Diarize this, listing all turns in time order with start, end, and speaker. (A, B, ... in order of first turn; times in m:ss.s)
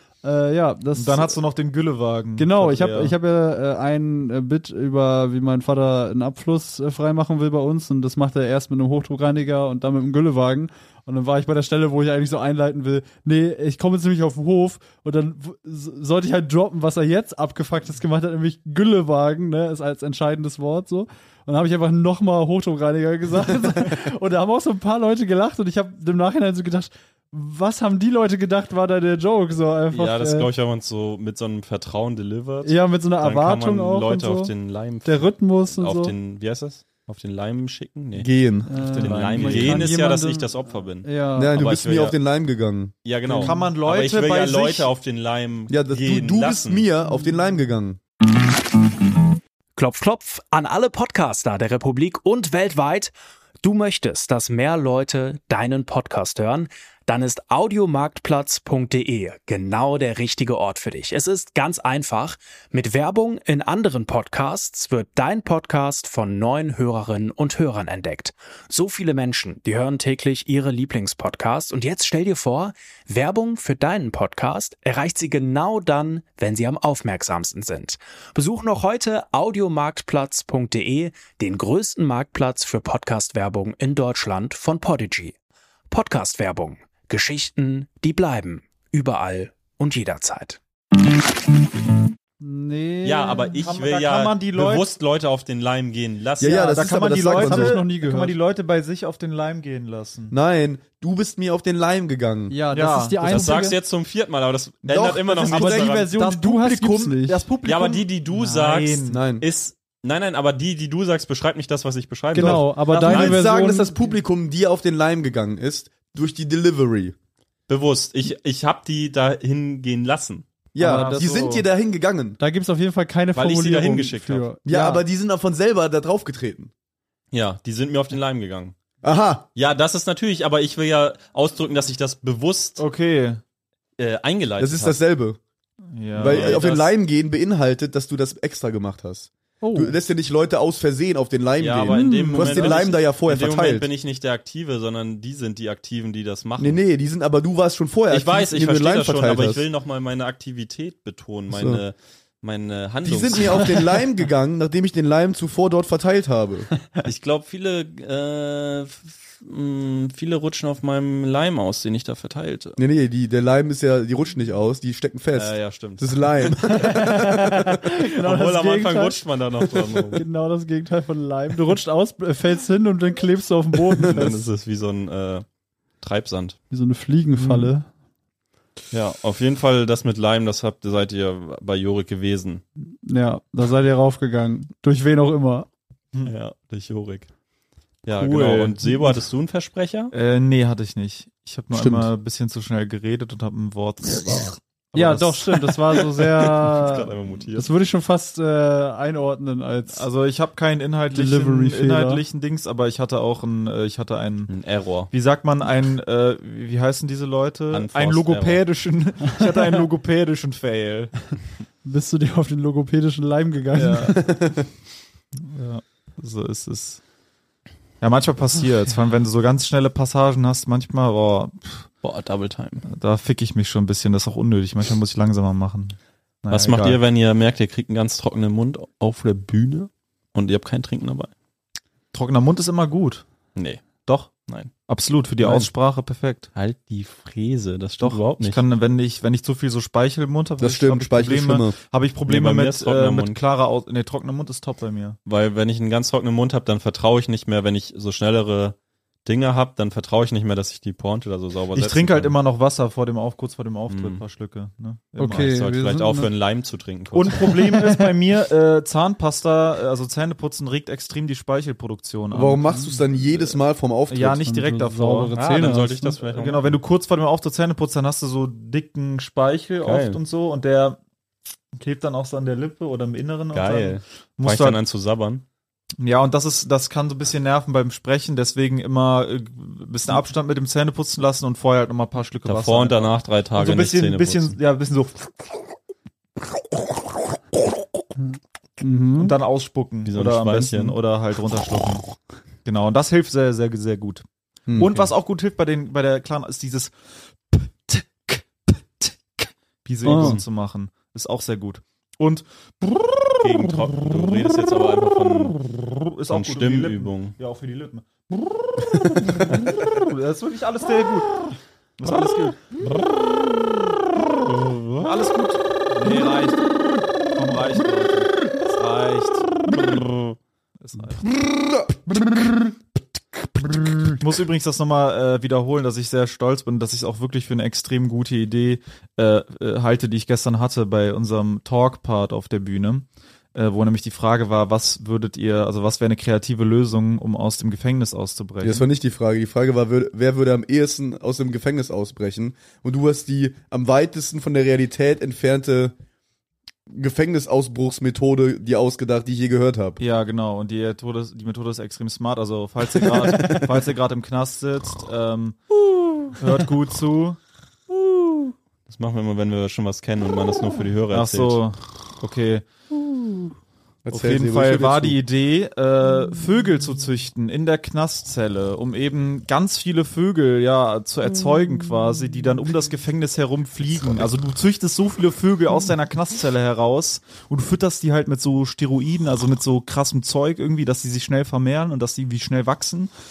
0:00.2-0:01.4 A
0:00.9-0:03.1 B
0:02.4-0:30.5 A
0:29.9-0:38.3 C
0:32.6-0:34.5 A
0:35.0-0:36.1 A
0:38.1-0:38.7 D
0:38.7-0:41.5 A
0:38.8-0:40.0 B
0:38.9-0:42.2 C
0:41.3-0:42.9 D
0:43.0-0:46.9 C
0:43.3-0:43.5 A
0:43.4-0:44.9 B
0:45.7-0:48.0 D
0:49.8-1:25.3 E
1:25.9-1:30.6 E
1:32.4-1:33.6 A
1:33.0-1:36.6 C
1:33.6-1:34.9 B
1:36.4-1:37.8 D
1:36.5-1:40.4 B
1:37.3-1:38.3 A
1:40.3-1:42.6 D
1:42.5-1:43.8 A
1:42.7-1:43.6 B
1:43.2-1:46.2 C
1:44.8-1:46.2 D
1:45.5-1:47.5 A
1:46.2-1:49.2 B
1:47.6-1:53.4 C
1:49.1-1:49.5 D
1:52.3-1:57.1 D
1:52.4-1:54.0 A
1:52.9-1:53.4 B
1:57.7-2:00.4 C
2:00.7-2:02.4 D
2:00.8-2:01.6 B
2:02.4-2:05.0 A
2:03.3-2:04.5 C
2:04.6-2:06.7 D
2:07.3-2:08.8 C
2:09.0-2:09.4 D
2:09.5-2:12.8 C
2:12.8-2:13.4 B
2:14.0-2:15.0 C
2:14.6-2:15.4 D
2:15.9-2:16.6 B
2:16.1-2:23.9 D
2:16.2-2:16.9 C
2:19.6-2:19.9 A
2:21.6-2:26.8 C
2:21.9-2:22.4 A
2:26.6-2:29.6 D
2:28.1-2:33.8 C
2:31.5-2:31.8 D
2:33.0-2:36.7 D
2:37.0-2:42.8 C
2:42.8-2:47.7 D
2:45.3-2:46.7 C
2:46.7-2:49.2 A
2:48.1-2:50.2 C
2:50.1-2:54.4 A
2:54.0-2:55.4 C
2:56.0-2:56.6 C
2:56.7-2:57.8 A
2:57.4-2:57.7 C
2:58.9-3:02.6 C
3:03.0-3:05.7 A
3:06.2-3:07.3 C
3:08.0-3:10.1 C
3:08.1-3:09.2 B
3:10.1-3:15.4 B
3:11.7-3:12.1 D
3:14.9-3:20.1 A
3:16.3-3:17.7 C
3:19.9-3:24.5 B
3:21.1-3:22.2 A
3:24.5-3:25.1 C
3:25.1-3:31.3 B
3:27.7-3:28.6 C
3:31.8-3:34.4 A
3:33.7-3:34.2 B
3:34.2-3:34.6 D
3:35.4-3:37.0 B
3:38.0-3:41.9 B
3:42.0-3:42.8 C
3:42.9-3:47.0 B
3:46.5-3:51.3 C
3:52.1-3:53.2 B
3:53.5-3:54.7 C
3:54.9-3:56.5 B
3:55.4-3:55.7 C
3:56.5-3:58.6 C
3:58.0-4:05.2 B
4:00.6-4:01.8 D
4:02.3-4:03.4 C
4:05.2-4:12.3 C
4:11.7-4:15.6 B
4:13.9-4:14.2 C
4:15.2-4:16.3 A
4:15.4-4:17.7 C
4:17.1-4:22.8 B
4:22.3-4:24.5 D
4:24.1-4:31.0 B
4:24.4-4:26.2 A
4:25.3-4:26.8 C
4:29.8-4:30.2 C
4:31.8-4:34.8 B
4:33.5-4:35.4 C
4:36.0-4:45.3 B
4:42.4-4:44.6 C
4:48.8-4:49.4 A
4:49.2-4:52.0 B
4:50.0-4:51.0 C
4:52.6-4:56.9 B
4:54.7-4:55.1 D
4:57.5-5:03.4 B
5:00.0-5:00.4 A
5:00.0-5:00.4 C
5:03.4-5:05.6 C
5:05.8-5:11.3 B
5:06.3-5:07.3 C
5:12.0-5:12.6 B
5:14.9-5:16.7 B
5:17.2-5:19.5 B
5:20.8-5:21.2 B
5:21.2-5:22.8 D
5:23.4-5:24.2 D
5:24.2-5:38.9 B
5:38.6-5:45.9 D
5:46.9-5:50.0 D
5:50.0-5:55.6 B
5:56.3-5:57.4 B
5:58.9-6:01.6 C
6:01.1-6:02.7 B
6:04.0-6:05.2 D
6:04.1-6:23.1 B